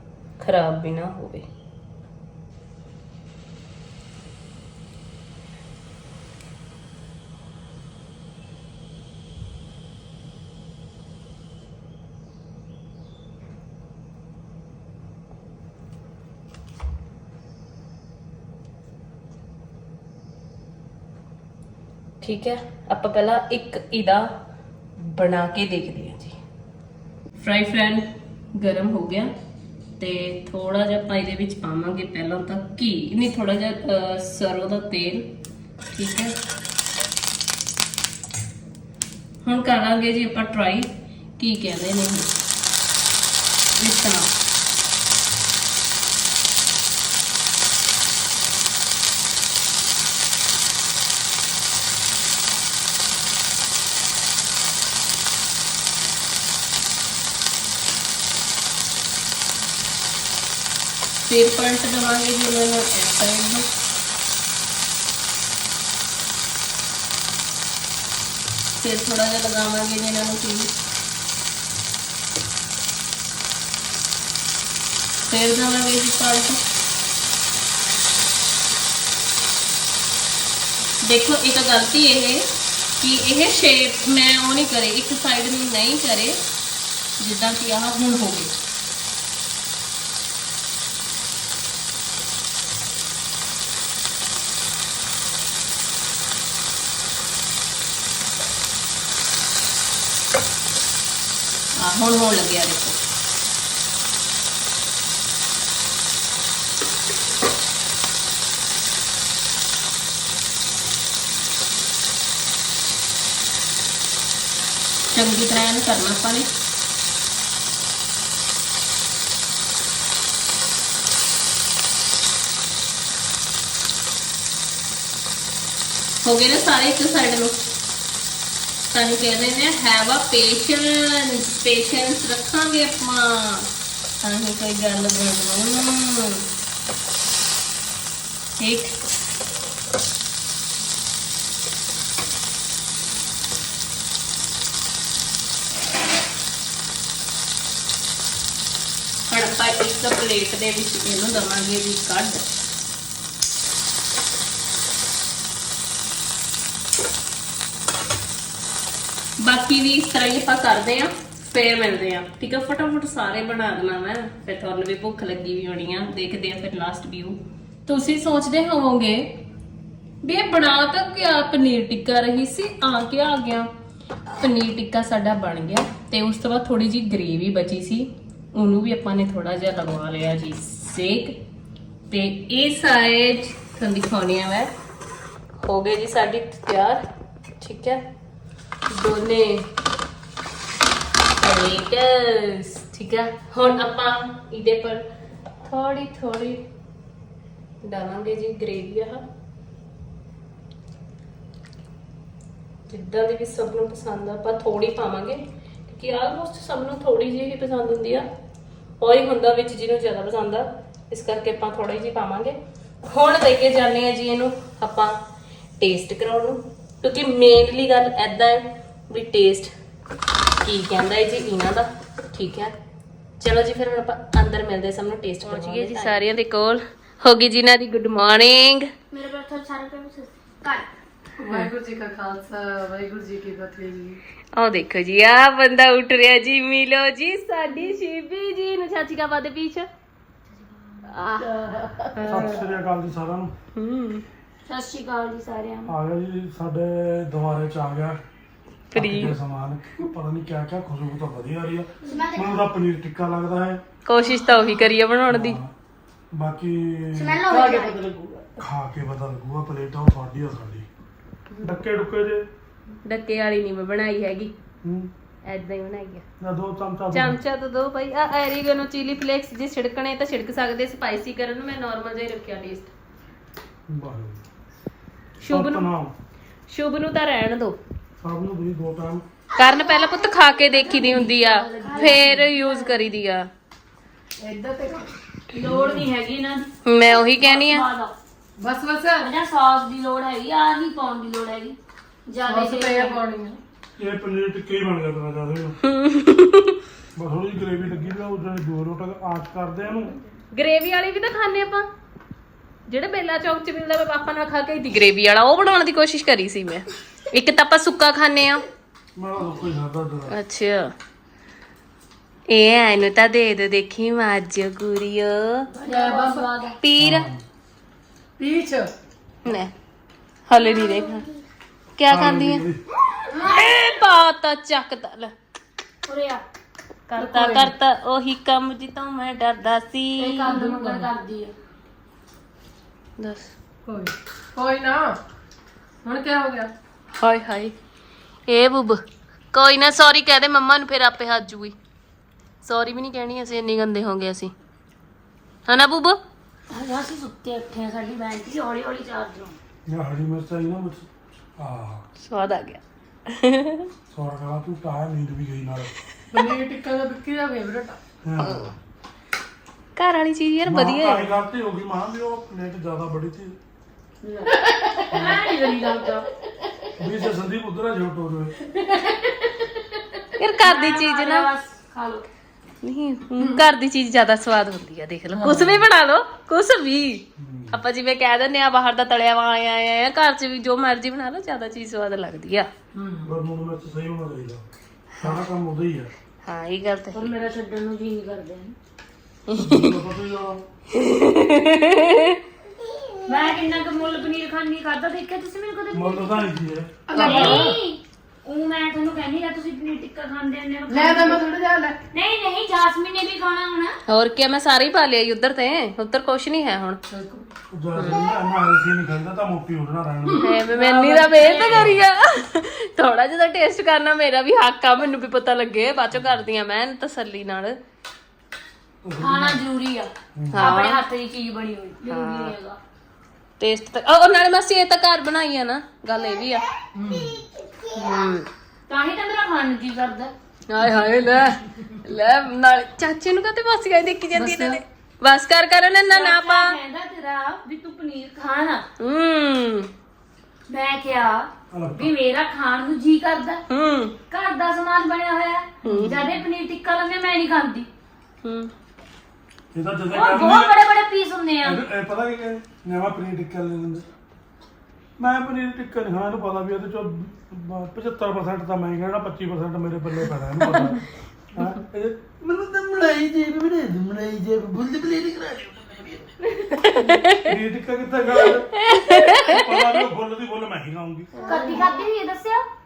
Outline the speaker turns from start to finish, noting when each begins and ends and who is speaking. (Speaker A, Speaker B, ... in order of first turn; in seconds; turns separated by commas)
Speaker A: 0.4-1.5, Speaker A: 22.2-24.3, Speaker A: 25.0-26.4, Speaker A: 27.4-29.3, Speaker A: 30.0-35.4, Speaker A: 35.9-36.4, Speaker A: 39.4-42.3, Speaker A: 43.8-44.3, Speaker A: 61.2-63.7, Speaker A: 68.8-70.7, Speaker A: 75.2-76.6, Speaker A: 81.0-82.5, Speaker A: 83.0-86.4, Speaker A: 87.2-88.5, Speaker A: 101.8-103.0, Speaker A: 115.1-116.5, Speaker A: 126.2-127.6, Speaker A: 128.9-136.4, Speaker A: 138.6-139.0, Speaker A: 149.3-152.4, Speaker A: 159.4-169.4, Speaker A: 170.2-173.7, Speaker A: 174.4-181.4, Speaker A: 182.1-184.7, Speaker A: 185.6-187.0, Speaker A: 187.6-188.0, Speaker A: 188.9-189.7, Speaker A: 191.4-195.1, Speaker A: 195.6-196.6, Speaker A: 197.8-199.2, Speaker A: 202.9-208.3, Speaker A: 209.0-215.2, Speaker A: 215.8-219.7, Speaker A: 220.6-222.8, Speaker A: 223.4-228.9, Speaker B: 225.5-226.2, Speaker B: 229.1-230.8, Speaker C: 231.4-234.2, Speaker A: 234.5-239.9, Speaker A: 241.1-242.7, Speaker D: 242.2-243.5, Speaker A: 243.7-244.2, Speaker B: 244.7-245.9, Speaker D: 245.8-248.2, Speaker A: 248.9-249.3, Speaker D: 248.9-253.8, Speaker A: 254.1-255.6, Speaker D: 255.3-255.7, Speaker D: 256.3-257.6, Speaker B: 257.1-258.0, Speaker C: 257.5-258.6, Speaker D: 258.6-260.9, Speaker D: 261.6-262.4, Speaker A: 263.1-264.5, Speaker D: 264.8-265.1, Speaker A: 265.4-266.2, Speaker D: 266.4-267.4, Speaker A: 267.1-272.9, Speaker D: 273.9-274.4, Speaker A: 275.4-275.9, Speaker D: 275.5-276.1, Speaker A: 276.7-277.8, Speaker D: 278.2-279.2, Speaker A: 279.6-283.5, Speaker B: 280.7-282.9, Speaker C: 281.8-282.2, Speaker C: 284.4-285.1, Speaker B: 285.5-288.1, Speaker D: 285.6-286.1, Speaker A: 286.8-287.9, Speaker C: 288.6-289.3, Speaker B: 289.2-291.8, Speaker B: 292.3-293.2, Speaker C: 292.4-293.6, Speaker D: 294.0-295.8, Speaker A: 295.8-296.8, Speaker D: 297.2-300.1, Speaker A: 300.5-301.9, Speaker A: 302.9-308.6, Speaker D: 309.2-310.4, Speaker A: 310.3-310.9, Speaker A: 312.5-315.7, Speaker B: 315.7-316.8, Speaker C: 315.9-316.5, Speaker A: 316.8-317.3, Speaker D: 317.0-317.4, Speaker C: 318.4-318.9, Speaker A: 319.4-319.7, Speaker A: 320.5-321.3, Speaker A: 321.9-322.6, Speaker D: 322.1-322.8, Speaker A: 323.2-325.3, Speaker B: 323.3-323.6, Speaker B: 326.1-326.4, Speaker A: 327.1-330.6, Speaker C: 327.2-327.7, Speaker B: 330.2-331.5, Speaker C: 330.5-331.1, Speaker A: 333.2-333.5, Speaker C: 333.9-335.2, Speaker C: 336.0-336.7, Speaker A: 337.1-337.7, Speaker A: 338.5-341.7, Speaker A: 342.6-344.5, Speaker A: 345.7-346.2, Speaker B: 346.7-349.6, Speaker D: 349.9-351.1, Speaker D: 351.6-352.1, Speaker A: 352.2-353.9, Speaker D: 354.1-355.9, Speaker C: 356.3-358.0, Speaker D: 358.2-358.7, Speaker A: 358.4-358.7, Speaker A: 359.9-361.3, Speaker D: 360.7-363.6, Speaker B: 364.2-366.3, Speaker D: 365.1-365.5, Speaker D: 367.0-368.6, Speaker B: 368.9-369.7, Speaker A: 370.4-371.5, Speaker B: 370.6-372.2, Speaker A: 372.8-382.7, Speaker D: 377.4-377.8, Speaker B: 383.0-383.2, Speaker D: 383.2-384.7, Speaker D: 385.2-386.1, Speaker A: 386.4-387.3, Speaker B: 387.1-388.7, Speaker A: 389.5-390.0, Speaker D: 389.6-390.6, Speaker A: 390.9-392.4, Speaker B: 393.2-396.5, Speaker D: 395.9-397.8, Speaker C: 397.1-397.7, Speaker B: 397.1-401.6, Speaker A: 397.2-397.7, Speaker C: 400.9-402.0, Speaker B: 402.1-404.0, Speaker A: 404.1-407.0, Speaker C: 407.1-407.5, Speaker D: 407.7-410.6, Speaker A: 408.0-408.3, Speaker A: 410.4-417.8, Speaker B: 410.8-411.9, Speaker D: 416.1-416.4, Speaker D: 419.0-419.6, Speaker B: 419.2-422.8, Speaker D: 420.3-420.8, Speaker A: 420.5-421.0, Speaker A: 422.1-422.6, Speaker A: 423.6-426.6, Speaker C: 426.9-427.4, Speaker A: 427.9-428.5, Speaker B: 428.9-430.3, Speaker A: 430.7-436.8, Speaker C: 434.3-434.8, Speaker B: 436.1-438.9, Speaker A: 439.0-439.9, Speaker B: 440.7-443.6, Speaker D: 441.7-442.1, Speaker A: 443.7-444.2, Speaker B: 444.3-447.9, Speaker A: 445.8-446.4, Speaker A: 448.4-448.7, Speaker D: 449.7-450.8, Speaker B: 450.1-451.8, Speaker D: 451.6-454.1, Speaker D: 455.2-466.3, Speaker A: 466.5-467.5, Speaker D: 467.3-471.3, Speaker A: 468.4-469.9, Speaker C: 471.3-471.9, Speaker B: 471.4-472.7